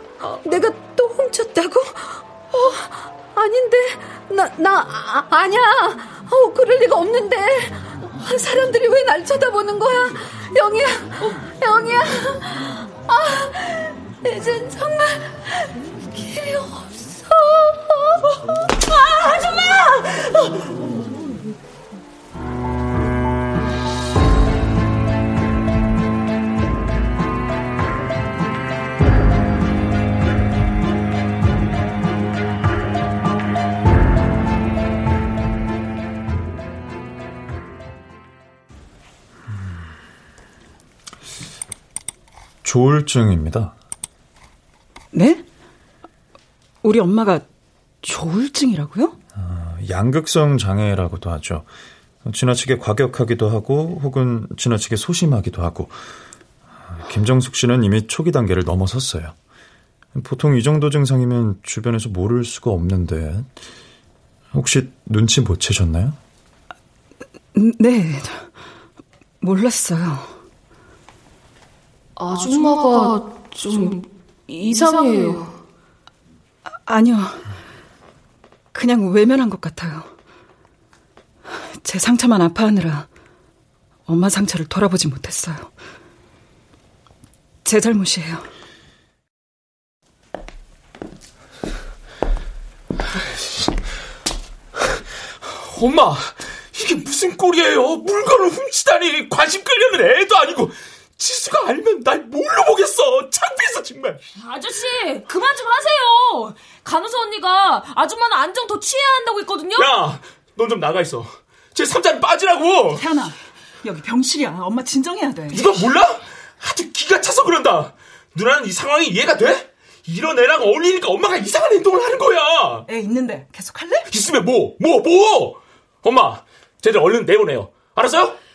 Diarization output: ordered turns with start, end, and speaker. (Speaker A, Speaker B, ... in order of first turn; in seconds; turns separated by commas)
Speaker A: 0.2-18.3, Speaker A: 18.9-20.2, Speaker B: 42.6-43.8, Speaker C: 45.1-45.4, Speaker C: 46.8-47.5, Speaker C: 48.0-49.2, Speaker B: 49.4-51.7, Speaker B: 52.2-56.0, Speaker B: 56.9-59.4, Speaker B: 60.1-63.5, Speaker B: 64.5-66.2, Speaker C: 67.5-68.5, Speaker C: 69.4-70.3, Speaker D: 72.2-75.5, Speaker A: 72.3-73.2, Speaker A: 74.8-75.4, Speaker C: 76.9-77.5, Speaker C: 78.7-80.1, Speaker C: 81.8-83.1, Speaker C: 84.1-85.7, Speaker C: 87.7-88.5, Speaker E: 95.7-104.2, Speaker D: 104.4-109.9, Speaker E: 109.8-113.0, Speaker C: 112.9-115.7, Speaker E: 115.5-122.9, Speaker C: 122.9-124.1, Speaker E: 124.1-128.4